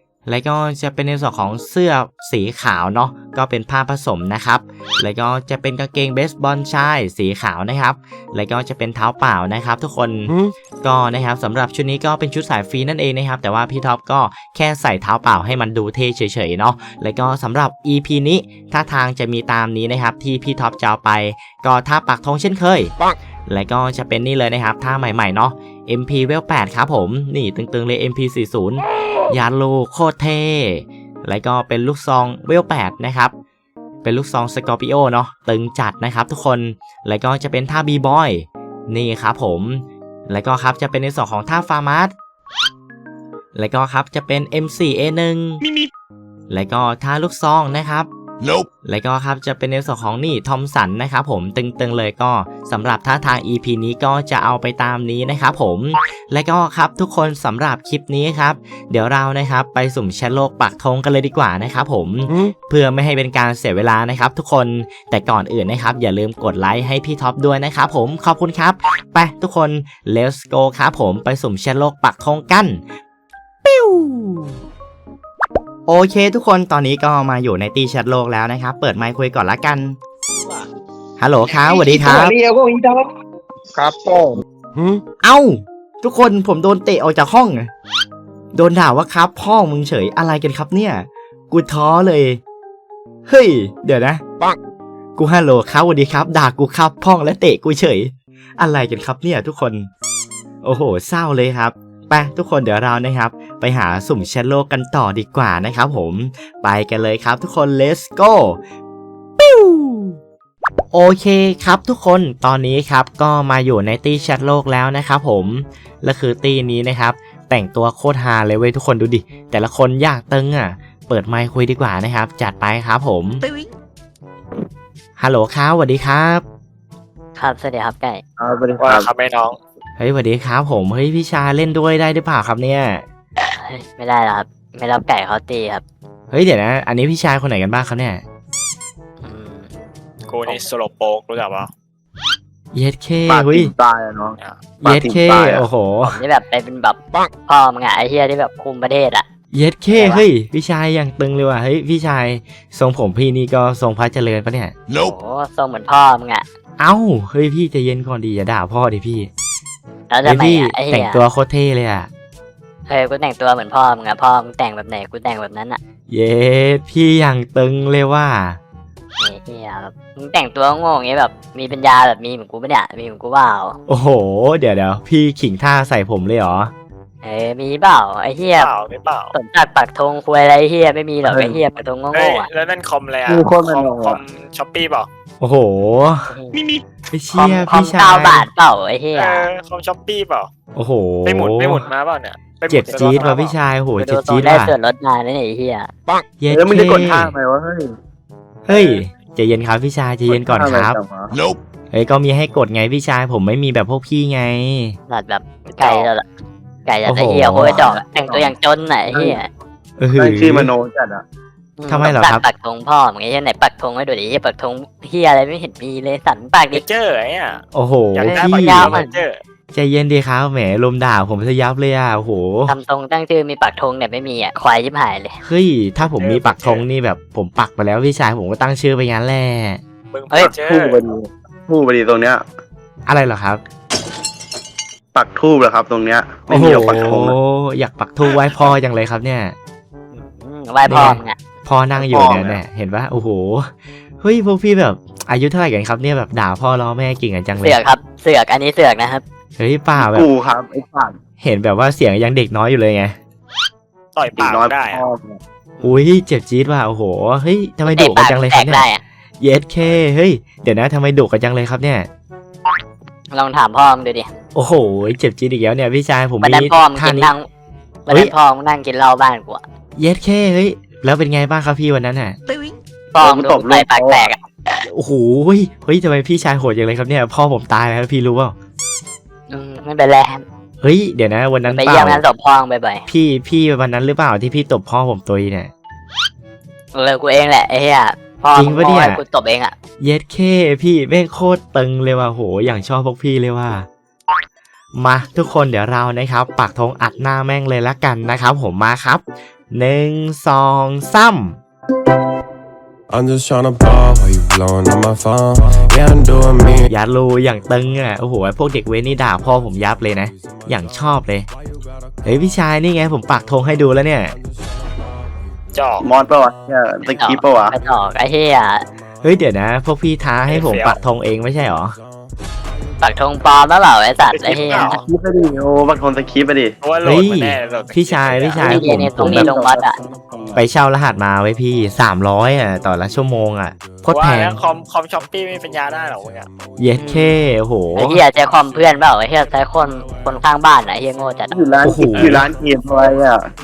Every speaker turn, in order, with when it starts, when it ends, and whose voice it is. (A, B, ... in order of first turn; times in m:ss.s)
0:00.3-0:22.9 A
0:23.5-0:33.3 A
0:34.0-0:42.1 A
0:43.6-0:45.6 A
0:45.6-0:45.9 B
0:46.5-0:48.1 A
0:48.8-1:12.8 A
1:13.6-1:14.6 A
1:15.9-1:20.0 A
1:21.2-1:22.4 A
1:25.2-1:27.7 A
1:28.5-1:32.4 A
1:33.3-1:34.2 A
1:35.2-1:39.9 A
1:40.6-1:48.6 A
1:49.4-1:50.2 A
1:50.9-2:03.4 A
2:05.2-2:06.4 A
2:07.4-2:08.2 C
2:08.4-2:09.1 D
2:08.8-2:09.6 B
2:10.0-2:13.0 A
2:13.4-2:15.8 C
2:16.3-2:18.2 A
2:19.2-2:19.7 C
2:20.3-2:21.7 B
2:22.7-2:23.7 A
2:23.3-2:25.7 D
2:24.8-2:26.2 A
2:26.0-2:29.2 C
2:29.5-2:34.7 A
2:29.9-2:30.2 C
2:34.9-2:36.5 C
2:36.8-2:39.3 A
2:40.1-2:41.2 C
2:40.2-2:42.1 A
2:42.9-2:45.8 C
2:46.1-2:48.6 A
2:49.2-2:53.8 C
2:53.9-2:56.7 A
2:57.2-2:58.7 C
2:58.6-2:59.3 B
2:59.3-3:02.5 C
3:01.2-3:01.6 D
3:02.1-3:05.1 B
3:03.3-3:04.2 D
3:05.4-3:06.3 A
3:06.3-3:06.6 C
3:06.5-3:06.8 B
3:07.1-3:08.5 A
3:07.3-3:09.5 C
3:09.1-3:10.5 B
3:10.8-3:11.8 A
3:11.2-3:13.6 B
3:12.7-3:14.7 A
3:14.0-3:15.9 C
3:16.4-3:17.4 A
3:16.5-3:17.9 D
3:18.7-3:21.0 A
3:18.7-3:19.0 D
3:20.3-3:21.4 D
3:21.3-3:21.6 E
3:21.9-3:25.0 A
3:25.1-3:26.2 C
3:25.8-3:26.1 B
3:26.9-3:29.5 C
3:27.1-3:27.9 A
3:27.6-3:28.6 D
3:29.1-3:29.4 D
3:30.0-3:30.7 A
3:30.2-3:31.2 D
3:31.8-3:36.8 C
3:31.9-3:32.4 A
3:36.7-3:37.6 B
3:37.7-3:39.0 A
3:38.1-3:39.4 B
3:38.2-3:39.2 C
3:39.7-3:42.7 A
3:42.7-3:45.4 C
3:45.4-3:49.8 A
3:46.0-3:46.8 B
3:50.1-3:51.0 B
3:50.3-3:52.4 D
3:53.1-3:53.6 A
3:55.1-3:57.4 D
3:56.5-3:59.6 A
4:00.1-4:01.4 C
4:00.9-4:07.8 A
4:02.0-4:02.6 D
4:07.6-4:09.2 C
4:09.6-4:10.3 A
4:10.0-4:11.2 D
4:11.4-4:13.2 A
4:14.2-4:15.0 B
4:14.4-4:15.4 D
4:15.8-4:18.9 A
4:17.9-4:19.0 C
4:19.4-4:22.1 A
4:23.3-4:24.3 C
4:24.6-4:27.3 A
4:26.4-4:27.5 C
4:28.1-4:29.6 C
4:30.0-4:32.4 A
4:32.5-4:34.4 C
4:33.2-4:34.4 D
4:34.8-4:38.6 A
4:39.5-4:40.4 C
4:40.8-4:42.2 A
4:41.7-4:43.0 C
4:43.1-4:45.7 A
4:46.9-4:49.8 C
4:48.5-4:49.2 A
4:50.0-4:53.9 A
4:55.0-5:01.6 A
5:03.1-5:06.9 E
5:06.8-5:11.5 A
5:12.2-5:14.4 A
5:14.7-5:15.2 E
5:15.7-5:16.1 B
5:16.0-5:17.8 D
5:17.1-5:18.9 C
5:19.2-5:22.0 A
5:20.5-5:21.0 B
5:23.0-5:25.0 C
5:24.3-5:25.0 B
5:24.9-5:26.8 D
5:26.8-5:28.8 B
5:27.0-5:29.5 A
5:28.6-5:30.0 C
5:28.8-5:30.6 D
5:30.6-5:34.6 A
5:34.1-5:36.5 B
5:36.2-5:36.6 E
5:36.8-5:38.2 A
5:37.0-5:37.4 C
5:38.0-5:41.6 C
5:41.5-5:43.5 D
5:41.8-5:42.4 A
5:42.1-5:42.5 B